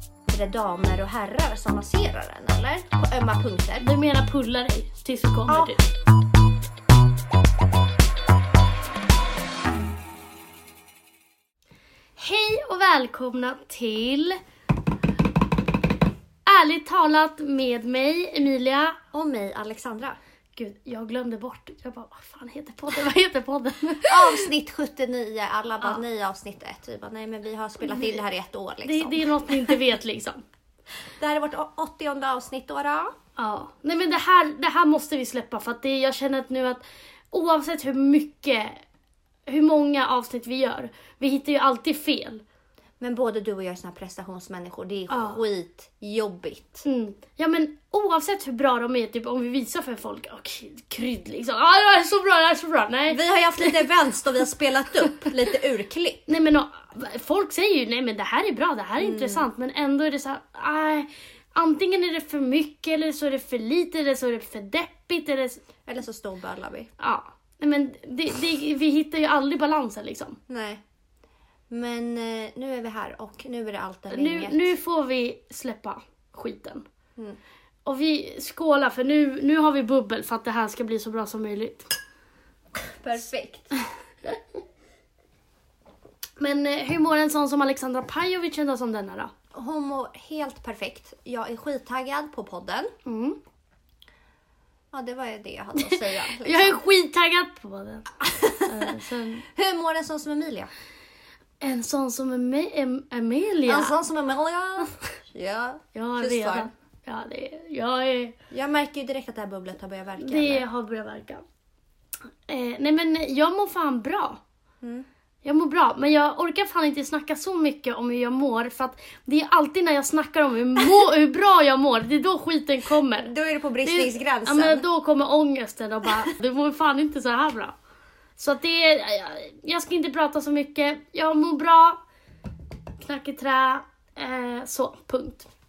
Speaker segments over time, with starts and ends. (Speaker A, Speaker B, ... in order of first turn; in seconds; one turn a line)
Speaker A: 0.3-3.9
Speaker B: 3.8-5.8
Speaker A: 5.5-5.7
Speaker B: 12.2-14.4
Speaker B: 16.4-19.0
Speaker A: 19.1-20.2
Speaker B: 20.6-24.5
Speaker A: 24.1-29.8
Speaker B: 27.9-28.2
Speaker B: 28.8-30.4
Speaker A: 31.2-33.1
Speaker B: 33.4-38.8
Speaker B: 39.5-42.4
Speaker A: 43.0-46.8
Speaker B: 45.1-45.4
Speaker B: 46.8-53.8
Speaker A: 53.1-56.2
Speaker B: 56.3-65.6
Speaker A: 59.0-59.5
Speaker A: 65.8-66.9
Speaker B: 67.0-70.4
Speaker A: 70.5-70.8
Speaker A: 71.7-74.7
Speaker B: 74.1-76.8
Speaker B: 77.8-81.9
Speaker A: 82.7-83.8
Speaker B: 86.4-89.3
Speaker A: 89.5-92.9
Speaker B: 93.0-93.4
Speaker A: 94.9-96.8
Speaker B: 95.8-99.5
Speaker A: 98.3-100.7
Speaker B: 101.6-103.9
Speaker A: 103.7-106.7
Speaker B: 105.9-108.3
Speaker A: 108.5-110.6
Speaker B: 110.2-111.4
Speaker B: 112.5-114.4
Speaker A: 114.8-115.1
Speaker B: 115.4-123.3
Speaker A: 123.2-124.8
Speaker B: 123.8-127.7
Speaker B: 128.4-132.0
Speaker B: 133.0-135.5